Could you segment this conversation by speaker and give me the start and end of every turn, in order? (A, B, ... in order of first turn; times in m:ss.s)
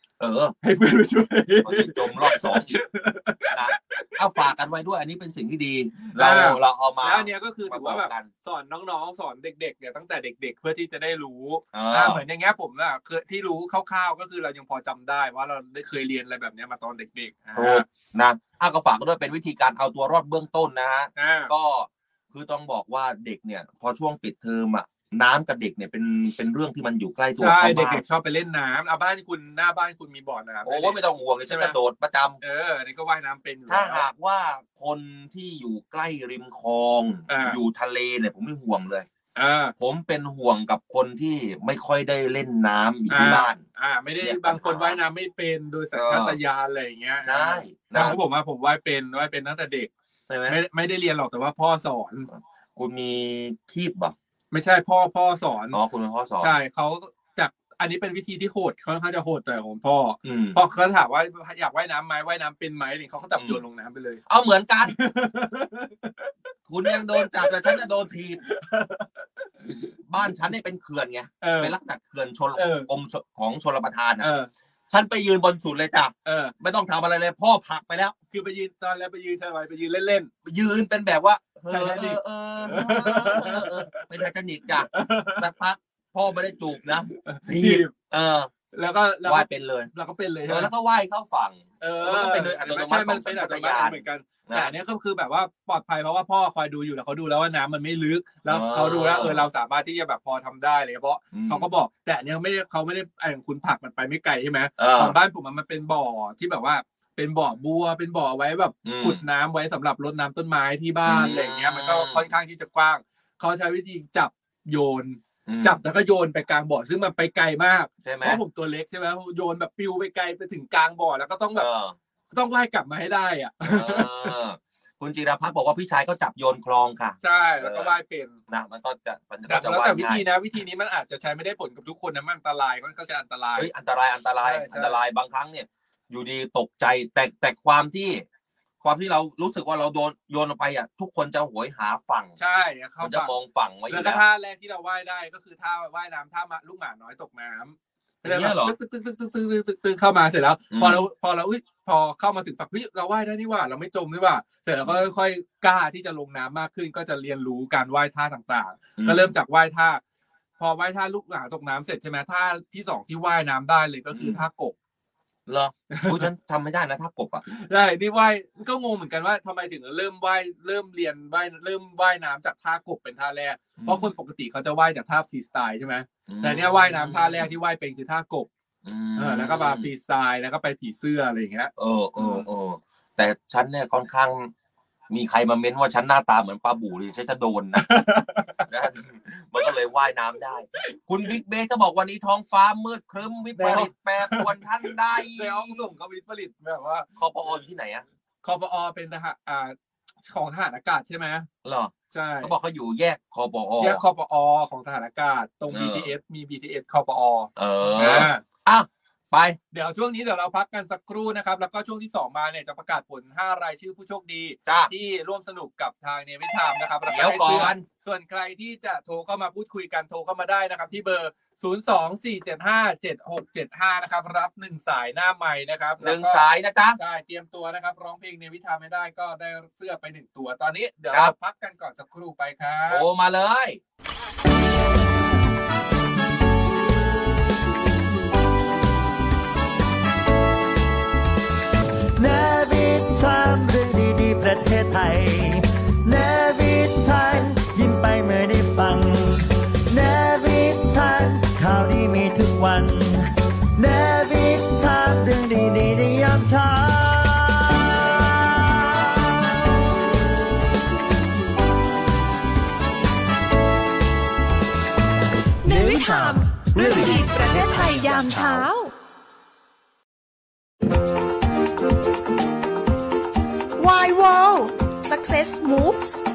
0:00.2-0:00.6 A
0:00.6-0:04.1 B
0:01.6-0:02.8 A
0:03.5-0:08.3 A
0:06.1-0:17.9 B
0:11.7-0:12.2 A
0:17.6-0:28.0 A
0:21.2-0:21.5 B
0:27.4-0:31.8 B
0:30.6-0:32.4 A
0:32.4-0:34.1 B
0:33.7-0:39.1 A
0:37.3-0:37.6 B
0:39.4-0:39.7 B
0:39.8-0:43.6 A
0:43.1-0:49.9 B
0:44.2-0:45.0 A
0:45.9-0:46.4 A
0:47.2-0:48.2 A
0:50.3-0:50.6 A
0:50.5-0:52.3 B
0:52.3-0:54.2 A
0:54.5-0:55.8 B
0:55.7-0:56.5 A
0:56.4-1:04.2 B
1:00.2-1:00.6 A
1:03.4-1:03.6 A
1:04.3-1:05.0 A
1:04.9-1:07.8 B
1:06.7-1:08.4 A
1:08.4-1:09.9 B
1:10.1-1:14.3 A
1:11.4-1:11.7 B
1:12.6-1:12.9 B
1:14.2-1:14.5 B
1:14.9-1:18.2 A
1:16.2-1:16.5 B
1:18.3-1:20.3 B
1:20.4-1:28.5 A
1:21.7-1:24.1 B
1:24.9-1:25.5 B
1:27.1-1:27.9 B
1:28.7-1:30.7 B
1:29.2-1:29.9 A
1:30.5-1:34.7 A
1:31.8-2:01.7 B
1:38.5-1:39.5 A
1:41.3-1:41.7 A
1:44.8-1:45.2 A
1:48.8-1:49.2 A
1:51.0-1:52.3 A
1:55.5-1:55.8 A
1:58.0-1:58.4 A
2:01.6-2:02.0 A
2:02.3-2:04.4 B
2:03.6-2:08.0 A
2:07.2-2:08.4 B
2:08.5-2:10.2 A
2:09.5-2:13.7 B
2:13.6-2:18.3 A
2:14.4-2:15.0 B
2:18.8-2:22.4 A
2:22.4-2:23.3 B
2:23.0-2:24.2 A
2:23.9-2:40.0 B
2:28.2-2:28.8 A
2:30.7-2:31.0 A
2:39.0-2:39.3 A
2:40.6-2:44.8 B
2:44.1-2:44.4 A
2:45.5-2:47.4 A
2:45.9-2:46.2 B
2:47.5-2:58.5 B
2:53.8-2:54.1 A
2:56.3-2:57.5 A
2:58.8-2:59.9 A
2:59.2-3:02.4 B
3:01.8-3:04.5 A
3:05.1-3:07.9 A
3:07.8-3:08.7 B
3:08.7-3:15.8 A
3:10.8-3:11.3 B
3:13.6-3:17.1 B
3:17.2-3:18.0 A
3:18.4-3:19.8 B
3:20.3-3:21.5 B
3:21.6-3:24.0 A
3:22.1-3:22.5 B
3:23.8-3:28.4 B
3:25.7-3:26.1 A
3:27.6-3:29.6 A
3:29.7-3:46.4 B
3:34.7-3:34.9 A
3:37.1-3:37.8 A
3:46.0-3:47.0 A
3:47.0-3:53.1 B
3:52.9-3:53.8 A
4:02.2-4:13.2 C
4:13.8-4:19.1 C
4:25.6-4:28.9 D
4:33.8-4:36.1 E